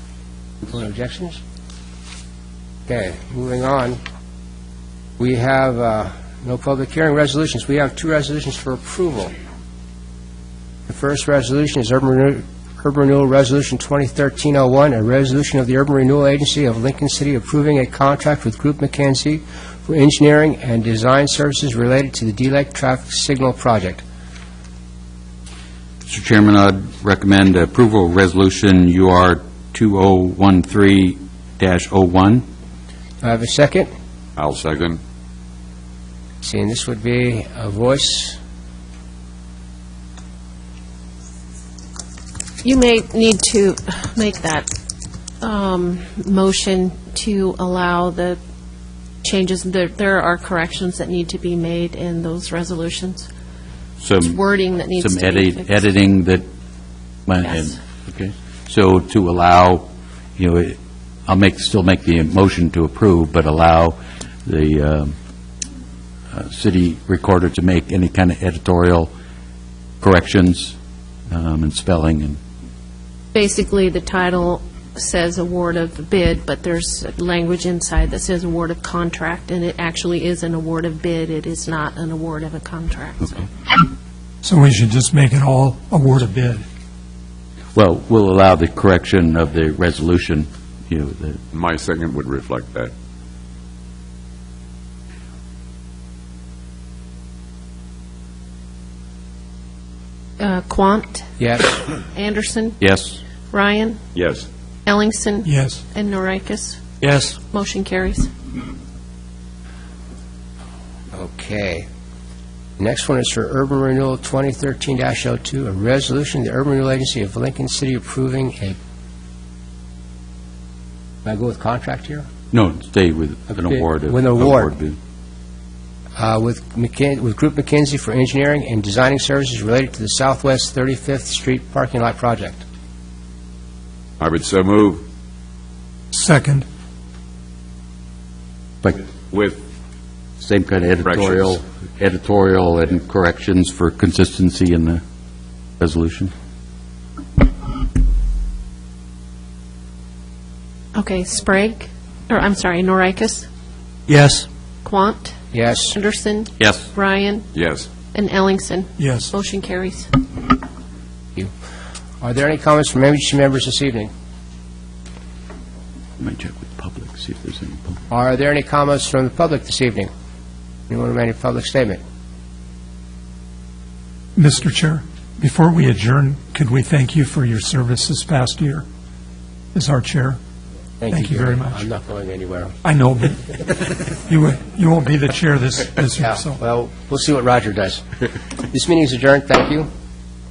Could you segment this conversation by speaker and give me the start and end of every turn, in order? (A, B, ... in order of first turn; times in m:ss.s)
0:00.6-0:01.4 A
0:02.9-0:04.0 A
0:05.2-0:09.3 A
0:10.9-0:24.0 A
0:26.1-0:32.4 B
0:33.2-0:33.9 A
0:34.4-0:35.0 C
0:36.4-0:38.4 A
0:42.6-0:44.7 D
0:45.4-0:48.4 D
0:49.2-0:53.3 D
0:54.0-0:54.4 B
0:54.2-0:55.9 D
0:55.0-0:56.4 B
0:57.3-0:59.9 B
0:57.4-0:57.8 D
1:00.4-1:05.2 B
1:06.3-1:09.1 B
1:10.0-1:10.8 B
1:11.3-1:12.4 B
1:13.3-1:23.5 D
1:24.4-1:26.6 E
1:27.8-1:31.4 B
1:31.5-1:32.9 C
1:40.4-1:41.3 D
1:41.4-1:41.8 A
1:42.0-1:42.8 D
1:42.8-1:43.2 B
1:43.5-1:44.0 D
1:44.2-1:44.5 C
1:44.9-1:46.8 D
1:45.4-1:45.8 E
1:47.0-1:47.4 B
1:47.5-1:48.3 D
1:51.1-1:51.9 A
1:52.8-1:58.8 A
2:01.2-2:02.3 A
2:02.5-2:05.0 B
2:03.7-2:04.7 A
2:06.2-2:12.6 A
2:14.2-2:15.0 C
2:16.1-2:16.7 E
2:19.3-2:19.6 C
2:20.4-2:25.0 B
2:21.0-2:21.6 C
2:25.8-2:26.3 B
2:31.0-2:33.5 D
2:34.1-2:34.4 B
2:34.8-2:37.5 D
2:35.5-2:36.0 A
2:36.6-2:36.9 B
2:37.6-2:37.9 C
2:38.1-2:40.5 D
2:39.0-2:39.3 E
2:42.2-2:44.1 A
2:46.2-2:48.0 B
2:48.1-2:50.1 A
2:50.9-2:52.0 A
2:54.4-2:58.8 E
2:59.8-3:00.4 E
3:01.0-3:02.7 A
3:01.1-3:01.8 E
3:02.8-3:03.6 E
3:04.3-3:06.6 E
3:06.2-3:08.1 A
3:08.6-3:09.9 A